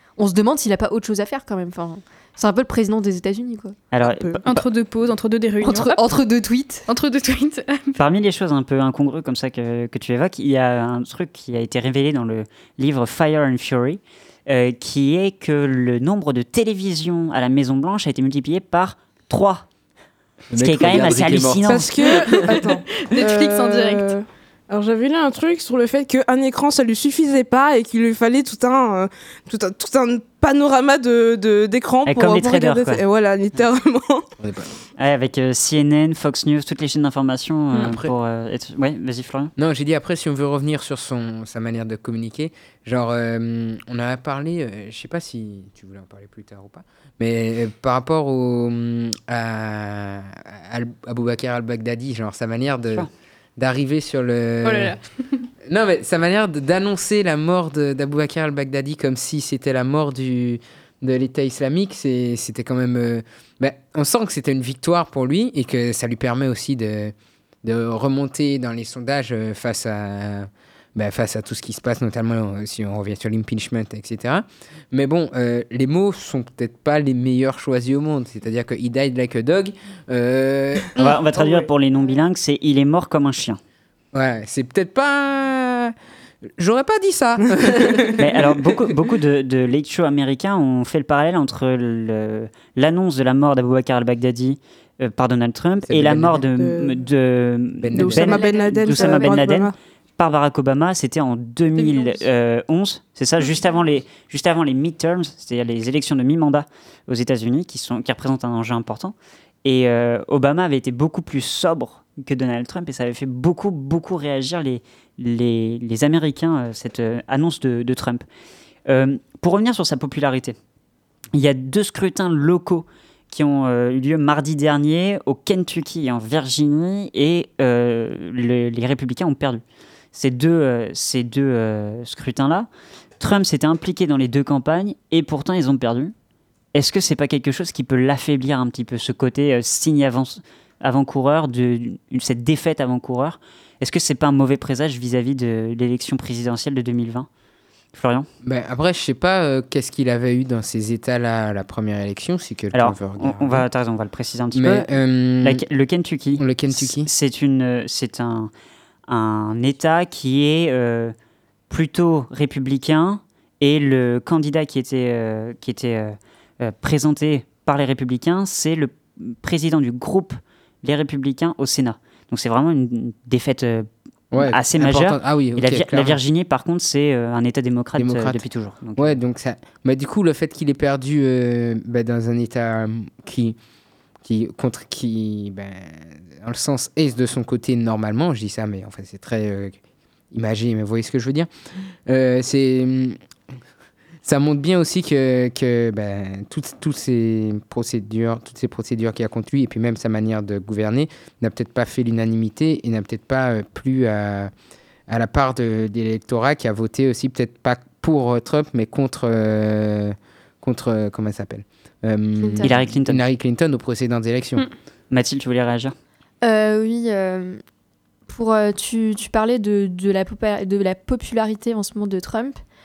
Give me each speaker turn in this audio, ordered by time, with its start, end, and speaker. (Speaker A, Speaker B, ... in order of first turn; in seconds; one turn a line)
Speaker A: 0.2-3.8
Speaker B: 3.9-4.4
Speaker C: 4.0-4.4
Speaker D: 4.4-6.0
Speaker A: 5.6-6.9
Speaker D: 6.9-8.0
Speaker B: 8.0-19.7
Speaker E: 20.5-22.6
Speaker B: 20.5-22.0
Speaker C: 21.7-34.2
Speaker D: 22.4-24.1
Speaker B: 32.1-33.0
Speaker E: 34.4-34.7
Speaker B: 35.0-39.5
Speaker E: 37.8-38.1
Speaker E: 39.6-55.0
Speaker D: 54.6-55.0
Speaker E: 55.6-81.2
Speaker B: 81.0-83.6
Speaker E: 84.1-85.9
Speaker E: 86.6-88.2
Speaker B: 88.2-118.2
Speaker E: 95.9-96.5
Speaker C: 96.6-97.0
Speaker E: 97.8-98.3
Speaker C: 98.0-99.7
Speaker A: 98.2-99.4
Speaker B: 118.9-120.6
Speaker B: 121.3-129.6
Speaker B: 130.1-132.7
Speaker B: 133.2-136.1
Speaker B: 136.7-147.3
Speaker B: 147.9-148.3
Speaker E: 148.4-153.7
Speaker B: 152.7-154.9
Speaker E: 154.5-155.6
Speaker B: 155.4-158.5
Speaker E: 156.4-157.1
Speaker B: 159.1-161.2
Speaker B: 161.7-179.2
Speaker E: 174.3-176.2
Speaker E: 178.0-178.4
Speaker E: 179.0-183.6
Speaker E: 184.2-189.8
Speaker E: 190.3-191.5
Speaker E: 192.1-193.2
Speaker E: 194.2-204.5
Speaker E: 205.1-214.7
Speaker A: 212.4-212.7
Speaker B: 212.6-213.2
Speaker B: 215.1-215.9
Speaker A: 216.4-217.6
Speaker A: 218.3-222.6